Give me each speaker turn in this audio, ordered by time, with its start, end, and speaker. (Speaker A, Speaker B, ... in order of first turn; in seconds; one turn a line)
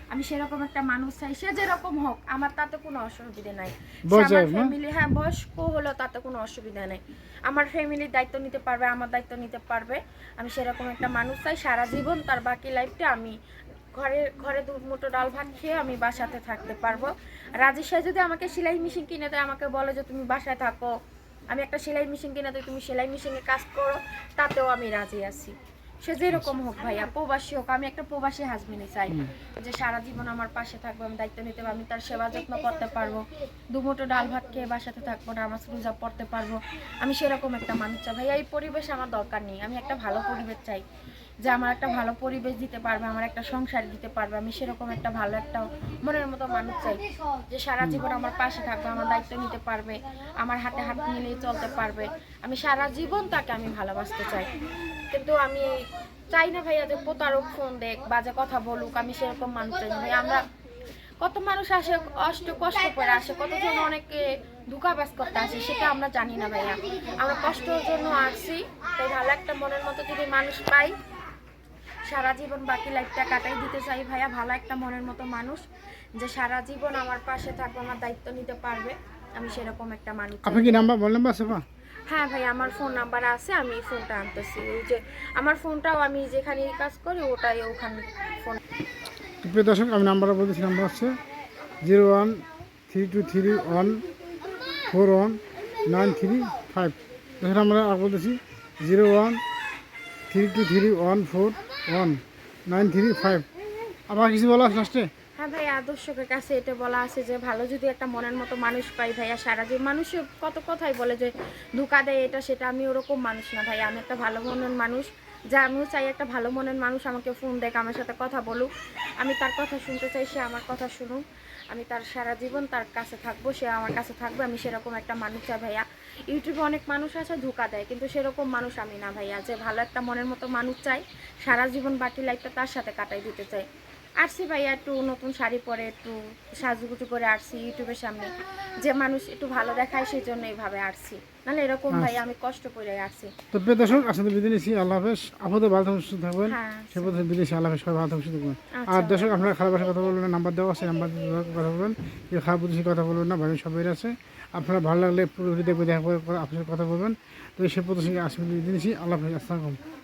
Speaker A: 0.1-13.3
Speaker B: 4.1-4.7
Speaker A: 13.9-20.9
Speaker A: 21.5-33.2
Speaker A: 33.7-40.8
Speaker A: 41.4-47.0
Speaker A: 47.5-54.5
Speaker A: 55.1-55.8
Speaker A: 56.3-60.4
Speaker A: 61.2-70.9
Speaker A: 72.1-75.6
Speaker A: 76.2-80.9
Speaker B: 80.4-81.6
Speaker A: 82.1-88.6
Speaker B: 89.4-91.1
Speaker B: 91.8-94.0
Speaker B: 94.9-99.4
Speaker B: 100.3-103.4
Speaker B: 104.1-105.1
Speaker A: 105.4-133.7
Speaker A: 134.2-143.3
Speaker B: 143.5-159.8
Speaker A: 146.5-147.3
Speaker A: 148.7-149.3